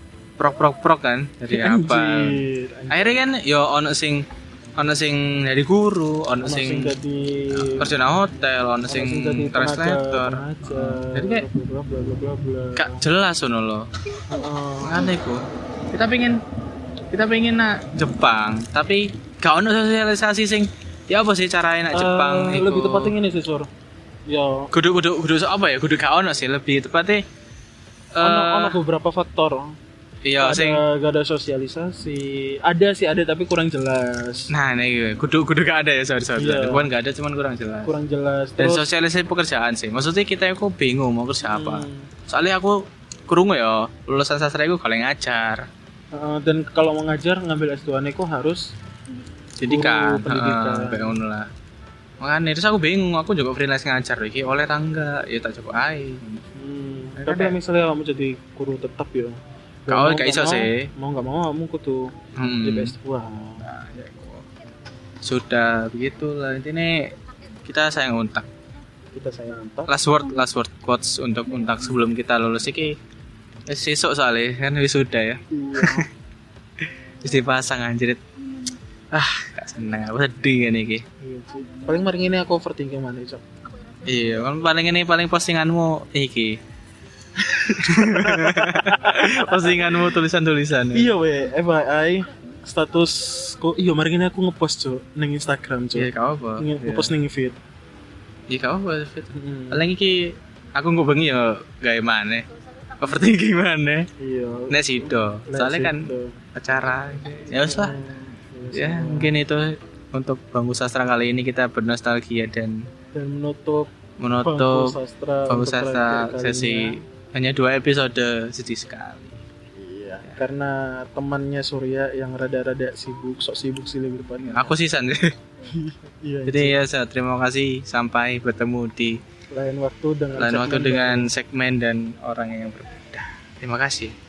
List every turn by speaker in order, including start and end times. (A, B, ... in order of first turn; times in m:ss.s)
0:00.4-0:07.0 A
0:01.5-0:03.2 B
0:06.4-0:07.9 B
0:07.6-0:11.5 A
0:08.9-0:13.0 B
0:12.8-0:13.9 A
0:14.3-0:15.1 B
0:14.8-0:16.4 A
0:17.1-0:23.1 A
0:21.9-0:23.7 B
0:24.3-0:24.7 B
0:24.7-0:27.2 A
0:28.1-0:28.8 A
0:28.2-0:29.8 B
0:30.2-0:30.8 A
0:30.4-0:34.5 B
0:34.5-0:37.9 A
0:36.4-0:36.9 B
0:37.8-0:38.9 B
0:38.6-0:45.7 A
0:41.4-0:42.1 B
0:46.1-0:48.6 B
0:49.6-0:51.5 A
0:49.6-0:51.2 B
0:52.2-0:56.4 A
0:56.6-0:59.4 B
0:57.2-0:57.6 A
0:59.9-1:02.1 B
0:59.9-1:00.9 A
1:02.4-1:02.9 A
1:02.6-1:03.6 B
1:03.6-1:04.4 A
1:05.2-1:07.1 A
1:07.6-1:08.5 A
1:09.1-1:09.9 B
1:09.9-1:13.0 A
1:13.7-1:16.1 A
1:15.5-1:16.1 B
1:17.2-1:18.2 A
1:19.1-1:21.0 A
1:21.2-1:23.4 B
1:24.0-1:26.6 A
1:27.5-1:30.1 B
1:27.7-1:31.1 A
1:30.9-1:37.6 B
1:36.0-1:37.1 A
1:38.5-1:44.1 A
1:39.3-1:39.8 B
1:44.2-1:46.4 B
1:44.7-1:48.0 A
1:47.5-1:49.4 B
1:48.7-1:52.9 A
1:53.1-1:53.9 B
1:54.2-1:54.9 A
1:54.4-1:57.0 B
1:55.5-1:59.4 A
1:59.8-2:04.8 B
2:04.4-2:05.3 A
2:05.7-2:06.8 B
2:06.5-2:09.2 A
2:09.5-2:11.3 B
2:10.4-2:14.1 A